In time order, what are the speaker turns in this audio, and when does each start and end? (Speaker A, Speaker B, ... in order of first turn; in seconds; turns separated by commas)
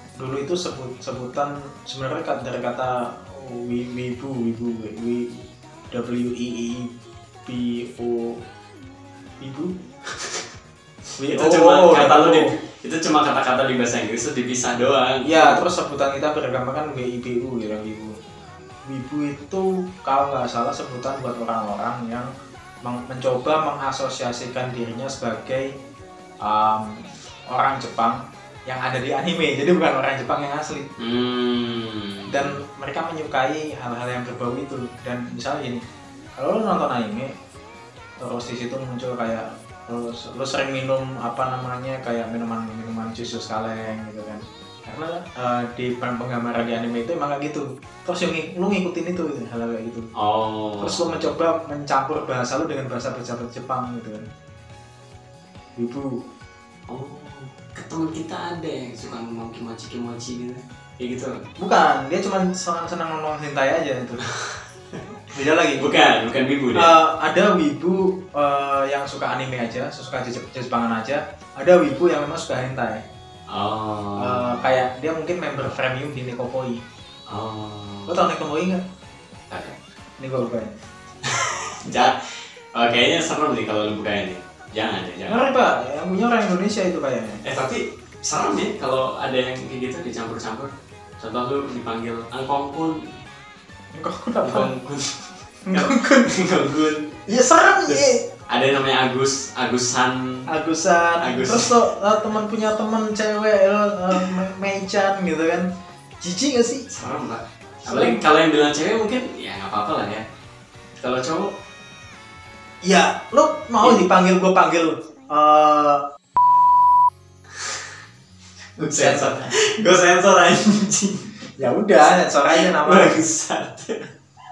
Speaker A: 0.2-6.9, Speaker A: 7.5-8.4, Speaker A: 9.4-9.7, Speaker A: 11.2-12.5, Speaker B: 11.2-15.6, Speaker A: 15.2-18.1, Speaker A: 18.9-22.3, Speaker A: 22.8-25.7, Speaker A: 26.4-30.9, Speaker B: 31.0-32.5, Speaker A: 32.3-35.8, Speaker A: 36.4-37.3, Speaker A: 38.2-50.1, Speaker B: 50.2-51.3, Speaker A: 50.8-54.2, Speaker A: 55.8-56.2, Speaker B: 56.9-61.4, Speaker A: 61.6-64.2, Speaker A: 65.3-65.9, Speaker B: 65.8-67.0, Speaker A: 66.7-73.0, Speaker B: 73.5-74.8, Speaker A: 74.2-76.8, Speaker B: 77.3-78.2, Speaker A: 78.1-78.8, Speaker B: 79.5-79.8, Speaker A: 80.2-80.7, Speaker B: 81.2-85.4, Speaker A: 85.3-87.4, Speaker B: 87.5-93.0, Speaker A: 93.9-94.7, Speaker B: 94.4-97.1, Speaker A: 95.7-96.3, Speaker A: 97.3-98.2, Speaker B: 97.9-100.4, Speaker A: 100.5-105.7, Speaker B: 101.2-101.8, Speaker A: 106.2-106.9, Speaker B: 106.9-110.2, Speaker A: 107.9-108.2, Speaker B: 111.0-111.5, Speaker A: 112.8-116.0, Speaker B: 113.8-114.1, Speaker B: 118.8-121.7, Speaker A: 118.9-119.4, Speaker A: 121.6-123.2, Speaker B: 122.2-124.0